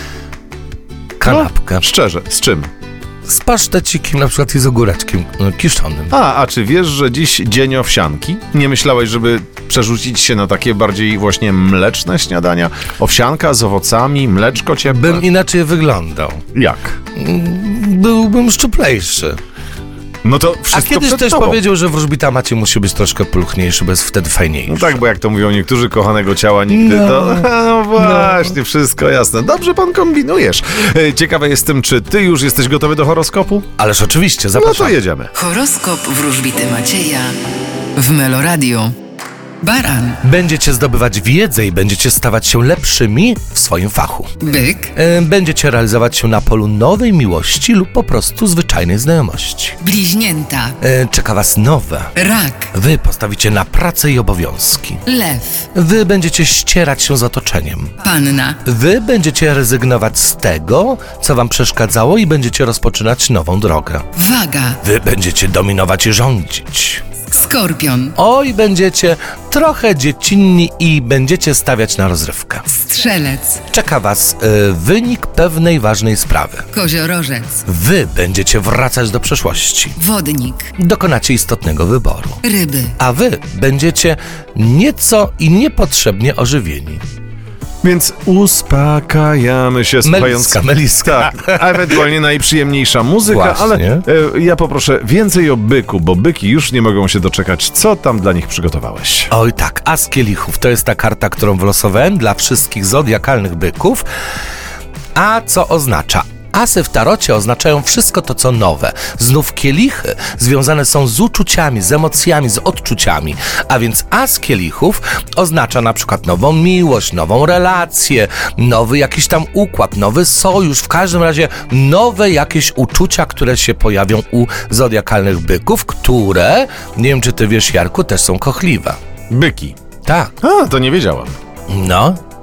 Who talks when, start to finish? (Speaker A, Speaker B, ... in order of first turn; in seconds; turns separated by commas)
Speaker A: 1.2-1.8, Speaker B: 1.2-2.7, Speaker A: 3.2-6.1, Speaker B: 6.1-15.2, Speaker A: 14.8-16.4, Speaker B: 16.5-17.0, Speaker A: 17.1-19.4, Speaker B: 20.2-21.6, Speaker A: 20.7-25.0, Speaker B: 24.7-33.7, Speaker A: 26.7-28.5, Speaker A: 33.8-35.0, Speaker B: 34.5-35.3, Speaker C: 35.3-37.4, Speaker C: 37.9-39.0, Speaker C: 39.6-40.2, Speaker A: 40.2-49.8, Speaker C: 44.4-44.9, Speaker C: 49.8-50.8, Speaker A: 50.8-52.1, Speaker C: 52.1-52.7, Speaker A: 52.7-55.0, Speaker C: 55.0-55.7, Speaker A: 55.7-58.0, Speaker C: 58.0-58.6, Speaker A: 58.6-64.0, Speaker C: 64.2-64.8, Speaker A: 64.8-67.0, Speaker C: 67.3-68.2, Speaker A: 68.1-72.7, Speaker C: 72.7-73.7, Speaker A: 73.7-76.7, Speaker C: 76.7-77.7, Speaker A: 77.7-80.0, Speaker C: 80.0-80.7, Speaker A: 80.8-82.4, Speaker C: 82.4-83.0, Speaker A: 83.0-87.0, Speaker B: 87.8-99.3, Speaker A: 90.0-91.9, Speaker A: 93.3-94.0, Speaker A: 99.3-104.0, Speaker A: 105.1-129.0, Speaker B: 129.3-129.8, Speaker A: 130.1-130.3, Speaker B: 130.4-131.4, Speaker A: 131.7-132.2